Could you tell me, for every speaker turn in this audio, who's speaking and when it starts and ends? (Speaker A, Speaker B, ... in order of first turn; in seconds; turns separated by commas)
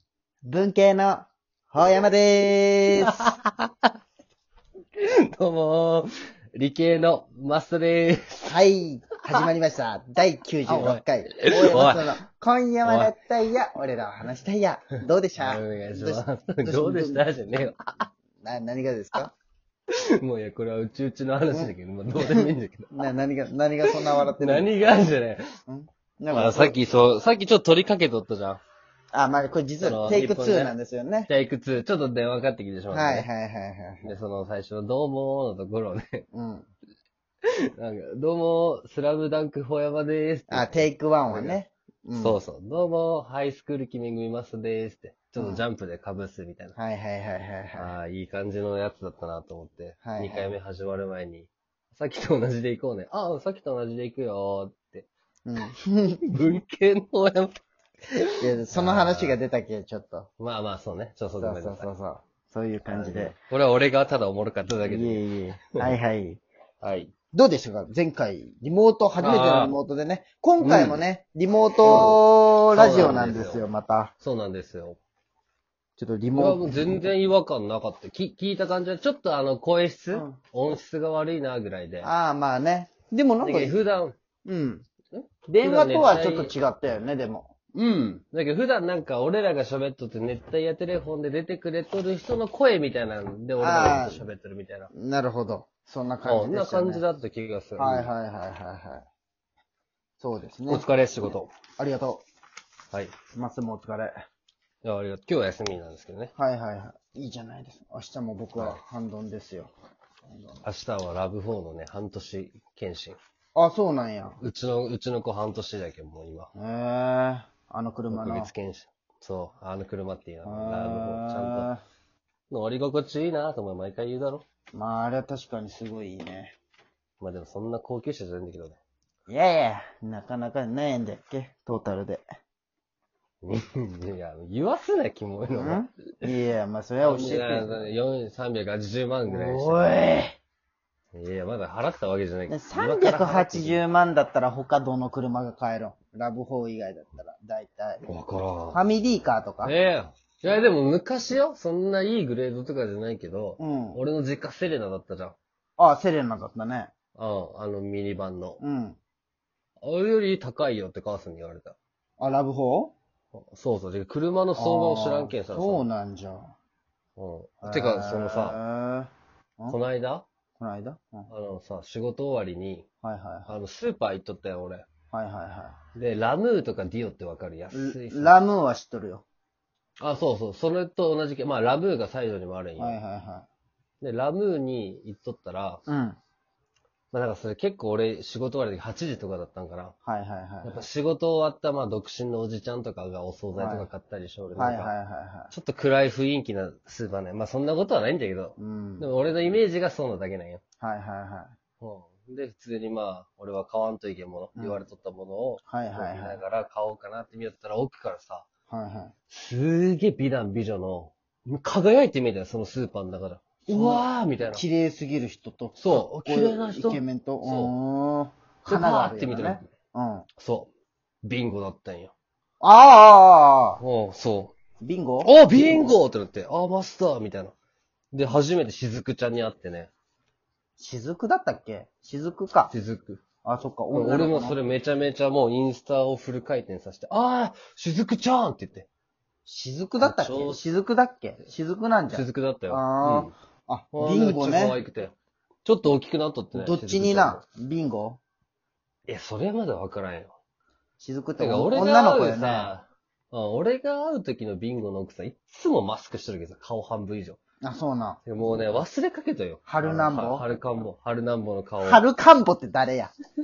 Speaker A: 0.4-3.3, Speaker B: 3.1-3.9, Speaker B: 5.0-8.6, Speaker A: 8.5-17.3, Speaker B: 10.7-12.1, Speaker B: 12.8-13.1, Speaker B: 15.4-18.1, Speaker A: 18.4-19.3, Speaker B: 19.9-23.1, Speaker A: 21.5-24.7, Speaker B: 23.9-25.5, Speaker A: 25.7-26.8, Speaker B: 26.3-28.6, Speaker A: 29.1-31.3, Speaker B: 29.8-30.7, Speaker B: 31.3-33.3, Speaker A: 32.9-34.1, Speaker B: 34.0-36.2, Speaker A: 36.3-36.7, Speaker B: 37.5-41.6, Speaker A: 40.5-42.4, Speaker B: 42.2-46.7, Speaker A: 45.4-45.6, Speaker A: 46.8-47.9, Speaker B: 47.7-55.1, Speaker A: 50.0-50.5, Speaker A: 55.5-56.3, Speaker B: 56.2-57.5, Speaker B: 58.1-59.4, Speaker A: 58.4-60.3, Speaker B: 60.4-61.9, Speaker A: 61.4-63.3, Speaker B: 62.9-65.2, Speaker A: 64.8-66.4, Speaker B: 66.8-67.1, Speaker A: 67.3-74.1, Speaker B: 69.2-69.8, Speaker B: 70.6-71.0, Speaker B: 71.8-72.2, Speaker B: 72.7-73.6, Speaker B: 74.2-75.0, Speaker A: 76.0-77.0, Speaker B: 76.3-82.1, Speaker A: 82.0-83.8, Speaker B: 83.4-84.1, Speaker A: 84.4-84.9, Speaker B: 85.1-86.5, Speaker A: 85.5-87.5, Speaker B: 87.7-94.9, Speaker A: 93.6-94.2, Speaker A: 94.9-97.0, Speaker B: 96.2-98.1, Speaker A: 97.8-99.0, Speaker A: 100.2-100.8, Speaker B: 100.7-101.5, Speaker A: 101.8-102.2, Speaker A: 103.3-104.2, Speaker B: 104.8-106.3, Speaker A: 106.4-109.7, Speaker B: 108.5-108.8, Speaker A: 110.3-110.6, Speaker B: 110.6-113.2, Speaker A: 113.5-114.4, Speaker B: 114.4-116.5, Speaker A: 116.5-118.5, Speaker B: 118.1-121.7, Speaker A: 120.4-121.8, Speaker B: 122.5-124.4, Speaker A: 124.7-126.5, Speaker B: 127.2-128.8, Speaker A: 129.3-132.2, Speaker B: 133.4-136.3, Speaker A: 135.5-137.8, Speaker B: 137.0-139.8, Speaker A: 139.3-140.4, Speaker B: 141.1-143.8, Speaker A: 142.5-148.1, Speaker B: 148.0-148.8, Speaker A: 148.7-149.8, Speaker B: 149.6-155.4, Speaker A: 153.6-154.0, Speaker A: 155.8-156.9, Speaker B: 157.2-158.6, Speaker A: 158.6-159.0, Speaker B: 159.8-161.8, Speaker A: 162.2-162.9, Speaker B: 163.3-165.8, Speaker A: 164.6-166.5, Speaker B: 167.2-168.6, Speaker A: 167.6-169.8, Speaker B: 169.7-170.2, Speaker A: 170.6-171.3, Speaker B: 171.3-172.9, Speaker A: 173.0-173.5, Speaker B: 173.5-174.8, Speaker A: 175.1-175.8, Speaker B: 175.9-178.3, Speaker A: 177.7-179.2, Speaker B: 180.0-183.0, Speaker A: 182.8-183.5, Speaker B: 184.0-185.8, Speaker A: 185.9-186.2, Speaker B: 187.1-189.9, Speaker A: 190.1-190.8, Speaker B: 190.6-194.9, Speaker A: 193.6-193.9, Speaker A: 194.6-195.5, Speaker B: 195.5-200.6, Speaker A: 198.6-199.1, Speaker A: 200.8-201.5, Speaker B: 201.8-208.5, Speaker A: 204.6-204.9, Speaker A: 205.6-206.4, Speaker A: 208.7-209.1, Speaker B: 209.3-214.6, Speaker A: 213.7-220.2, Speaker B: 215.8-217.7, Speaker B: 218.7-219.7, Speaker B: 220.4-220.7, Speaker B: 221.2-222.1, Speaker A: 222.6-223.8, Speaker B: 223.8-224.5, Speaker A: 224.8-226.0, Speaker B: 225.2-227.5, Speaker B: 228.1-229.9, Speaker A: 230.8-232.7, Speaker B: 232.7-233.2, Speaker A: 233.4-234.6, Speaker B: 233.9-238.9, Speaker A: 239.4-244.8, Speaker B: 240.0-240.6, Speaker B: 242.1-243.3, Speaker B: 243.9-245.1, Speaker B: 245.7-247.4, Speaker A: 246.5-248.2, Speaker B: 249.1-250.4, Speaker A: 251.0-252.7, Speaker B: 251.4-257.4, Speaker A: 257.6-258.2, Speaker B: 258.2-262.0, Speaker A: 259.6-260.4, Speaker A: 261.8-263.1